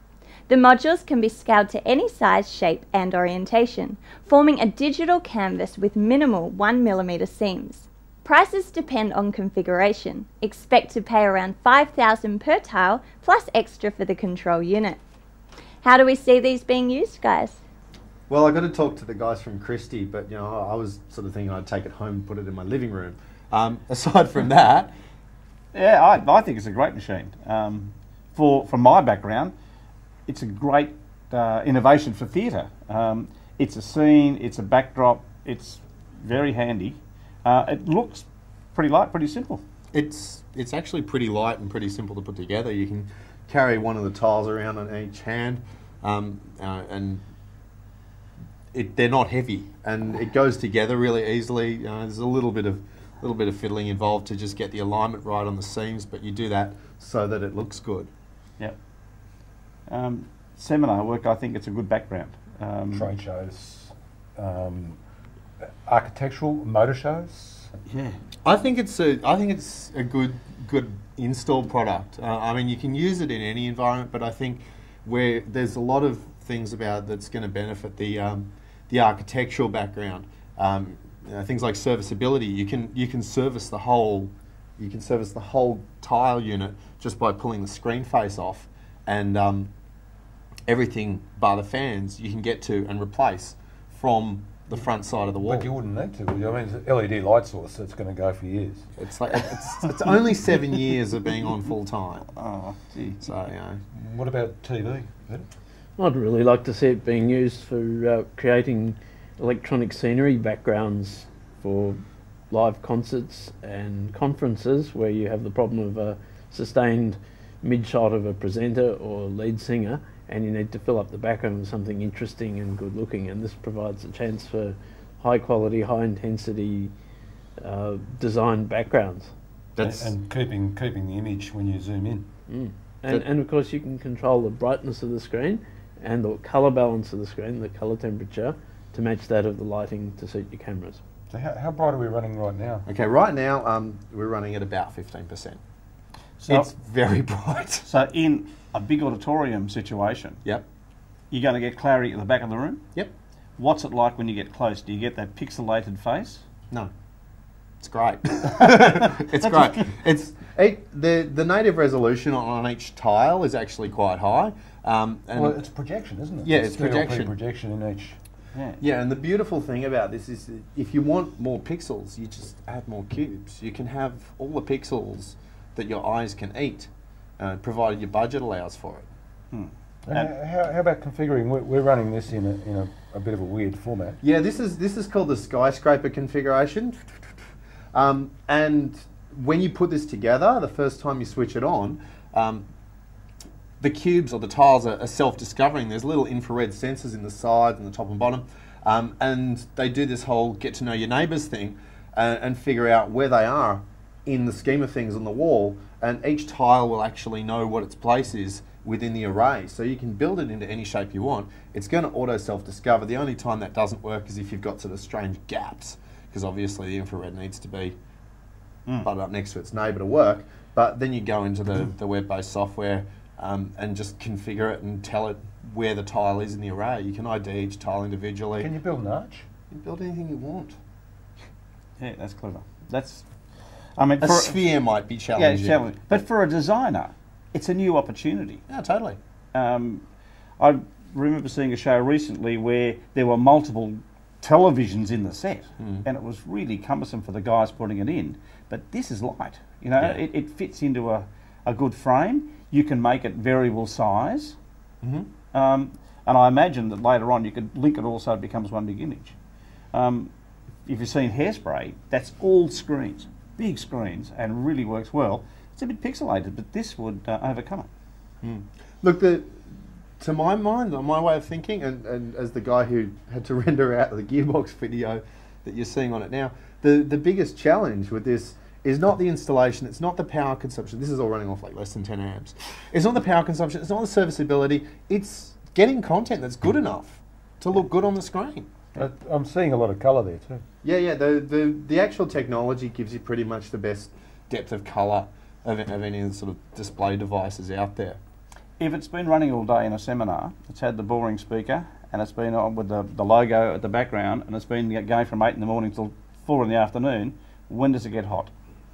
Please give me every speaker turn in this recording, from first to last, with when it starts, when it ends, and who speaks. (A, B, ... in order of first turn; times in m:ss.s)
0:00.5-0:15.0 A
0:15.8-0:17.6 A
0:18.3-0:24.9 B
0:25.7-0:29.5 C
0:30.3-0:39.6 C
0:39.9-0:47.2 B
0:48.7-0:58.1 B
0:59.9-1:03.1 C
1:02.9-1:05.0 D
1:05.9-1:07.7 D
1:07.9-1:08.2 C
1:08.4-1:29.7 B
1:30.7-1:35.6 B
1:35.4-1:38.8 D
1:39.0-1:42.3 B
1:42.4-1:43.2 C
1:43.2-1:43.8 B
1:44.0-1:45.5 D
1:46.0-1:52.0 E
1:52.5-2:06.9 E
2:07.6-2:09.3 E
2:09.8-2:10.1 B
2:09.8-2:12.3 D
2:12.5-2:21.0 E
2:21.3-2:22.8 D
2:22.8-2:25.6 B
2:26.4-2:26.7 C
2:26.5-2:27.8 B
2:27.8-2:30.4 C
2:31.3-2:32.8 C
2:33.6-2:36.4 C
2:37.8-2:45.6 B
2:39.2-2:39.8 C
2:45.4-2:48.2 D
2:46.4-2:47.3 B
2:48.5-2:48.8 C
2:48.8-2:59.1 B
2:59.5-3:00.3 C
3:00.1-3:04.2 D
3:04.2-3:07.0 B
3:07.9-3:12.6 B
3:13.8-3:38.0 B
3:39.0-3:48.7 B
3:48.6-3:49.4 D
3:49.7-3:50.8 B
3:52.0-3:53.2 C
3:54.0-3:54.6 C
3:54.2-3:55.9 B
3:55.3-3:58.6 C
3:58.7-3:59.2 B
3:59.5-4:00.0 C
4:00.6-4:14.6 C
4:05.8-4:06.0 B
4:15.0-4:15.3 B
4:15.5-4:19.3 C
4:19.9-4:20.3 C
4:20.8-4:27.9 C
4:28.4-4:29.6 B
4:30.2-4:48.7 B
4:49.0-4:50.6 D
4:50.8-4:58.2 B
4:58.8-5:08.5 C